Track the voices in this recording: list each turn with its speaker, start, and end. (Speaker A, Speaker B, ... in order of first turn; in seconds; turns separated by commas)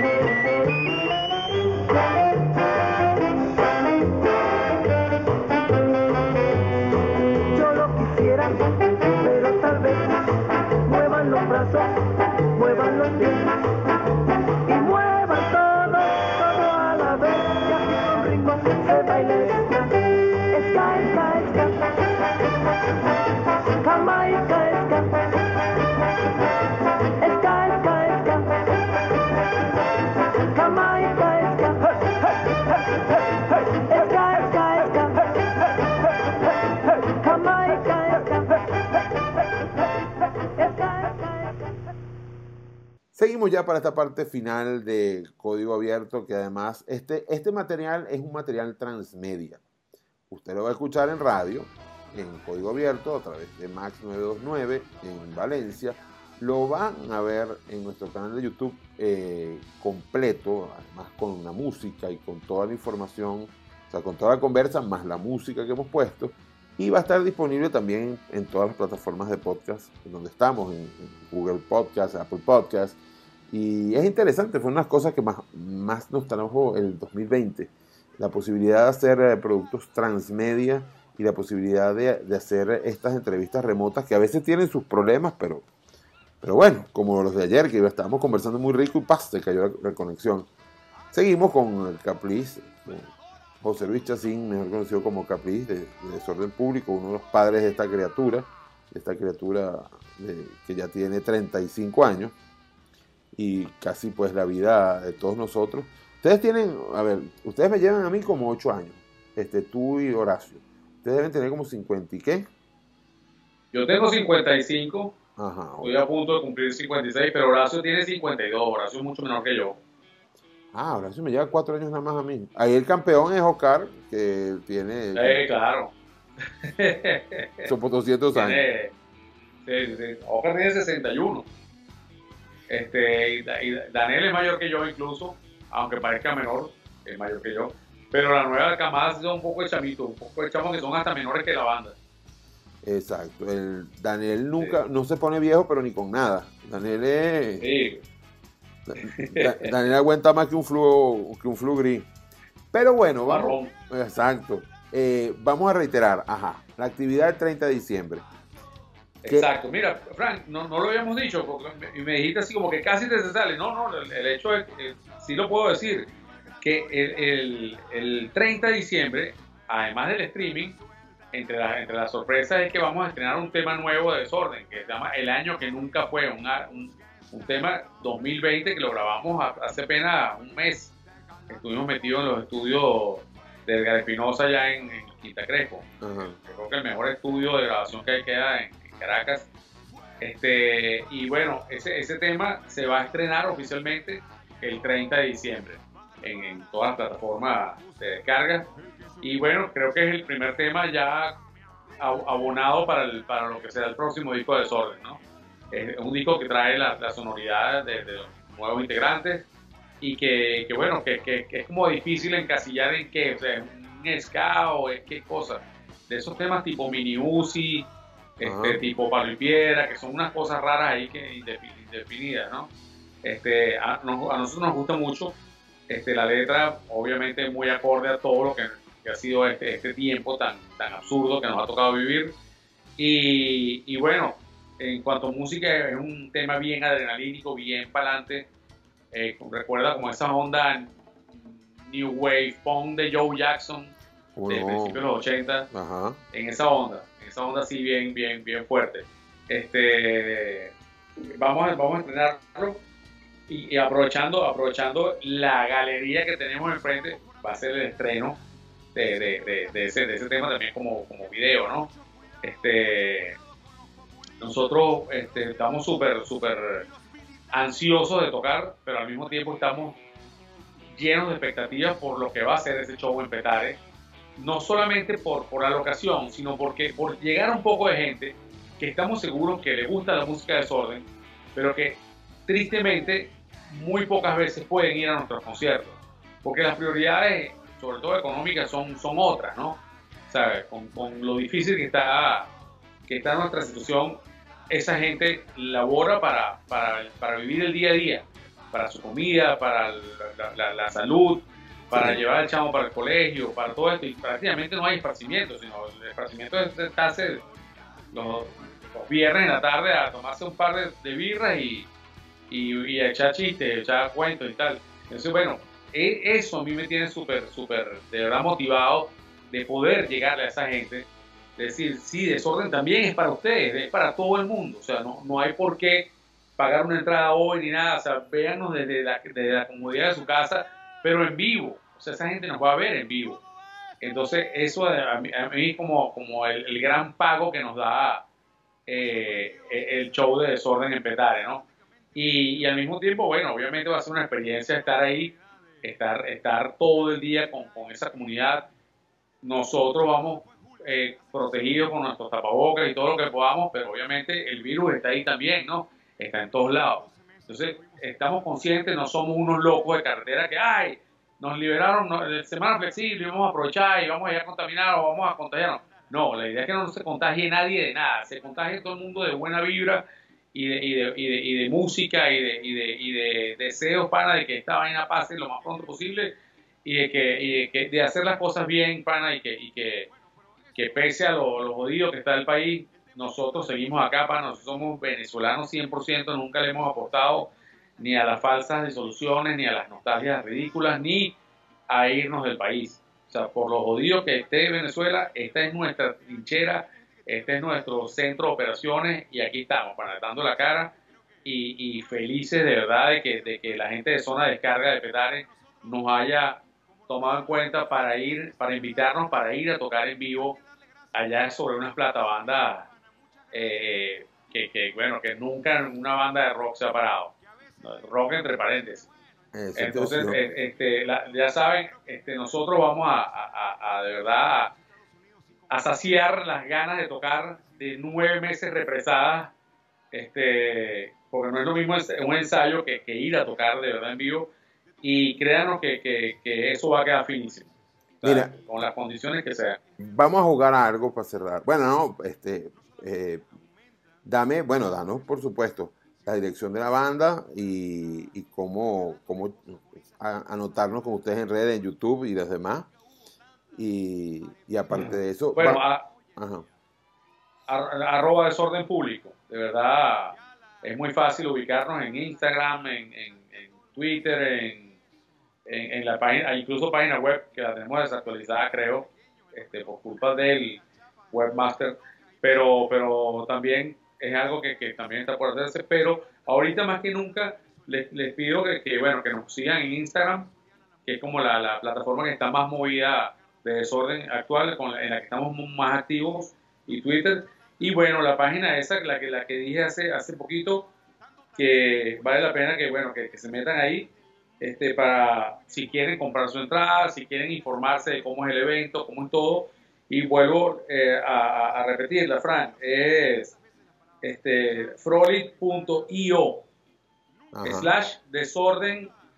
Speaker A: 7.5-8.7, Speaker A: 9.2-10.1, Speaker A: 10.8-11.9, Speaker A: 12.5-13.5, Speaker A: 14.7-19.9, Speaker A: 20.5-21.7, Speaker A: 23.8-25.1, Speaker A: 27.2-28.4, Speaker A: 30.5-32.0, Speaker A: 33.9-35.2, Speaker A: 37.2-38.7, Speaker A: 40.6-41.6, Speaker B: 43.1-49.6, Speaker B: 50.3-73.0, Speaker B: 73.5-85.6, Speaker B: 86.4-90.5, Speaker B: 91.1-93.1, Speaker B: 93.6-102.3, Speaker B: 103.3-112.5, Speaker C: 113.7-115.1, Speaker B: 115.4-116.0, Speaker C: 115.8-119.8, Speaker B: 120.7-125.4, Speaker C: 125.1-125.9, Speaker C: 126.6-127.7, Speaker B: 127.6-128.6, Speaker C: 128.3-128.9, Speaker C: 129.6-131.4, Speaker C: 132.7-141.9, Speaker B: 142.8-147.7, Speaker C: 147.6-148.0, Speaker B: 148.9-152.1, Speaker C: 149.0-149.7, Speaker B: 152.7-158.2, Speaker C: 153.3-153.7, Speaker C: 159.2-166.1, Speaker C: 166.6-170.8, Speaker C: 171.3-180.9, Speaker C: 181.5-185.9, Speaker B: 186.0-186.4, Speaker C: 186.4-189.5, Speaker C: 190.2-198.7, Speaker C: 199.2-201.3, Speaker C: 202.0-205.2, Speaker C: 205.7-209.5, Speaker C: 210.0-217.9, Speaker C: 218.4-222.7, Speaker B: 218.4-218.8, Speaker C: 223.2-225.3, Speaker C: 225.9-232.3, Speaker C: 233.0-238.5, Speaker C: 239.1-243.9, Speaker B: 244.3-245.0, Speaker C: 244.5-245.7, Speaker B: 245.7-246.2, Speaker C: 246.3-252.8, Speaker C: 253.5-258.4, Speaker C: 258.9-261.9, Speaker C: 262.4-263.4, Speaker C: 264.4-266.8, Speaker C: 267.5-270.0, Speaker C: 270.9-273.8, Speaker C: 274.4-292.5, Speaker C: 293.1-294.2, Speaker C: 294.7-307.4, Speaker B: 301.9-302.2, Speaker C: 308.1-311.9, Speaker C: 312.5-321.1, Speaker C: 321.6-333.4, Speaker C: 334.0-338.2, Speaker C: 338.9-348.7, Speaker C: 349.4-380.1, Speaker C: 380.7-391.4, Speaker C: 391.9-400.9, Speaker C: 401.4-410.6, Speaker C: 411.1-412.9, Speaker C: 413.5-419.1, Speaker B: 419.5-420.4, Speaker C: 419.7-424.7, Speaker C: 425.7-429.5, Speaker C: 430.1-434.5, Speaker C: 435.0-439.8, Speaker B: 438.2-438.5, Speaker B: 440.0-443.4, Speaker B: 444.2-452.9, Speaker B: 453.7-455.8, Speaker C: 454.9-456.1, Speaker B: 456.4-456.6, Speaker C: 457.7-464.9, Speaker C: 465.7-480.5, Speaker C: 481.0-490.9, Speaker C: 491.6-494.1, Speaker C: 494.6-503.6, Speaker C: 504.2-506.6, Speaker B: 507.5-507.9, Speaker C: 507.6-509.1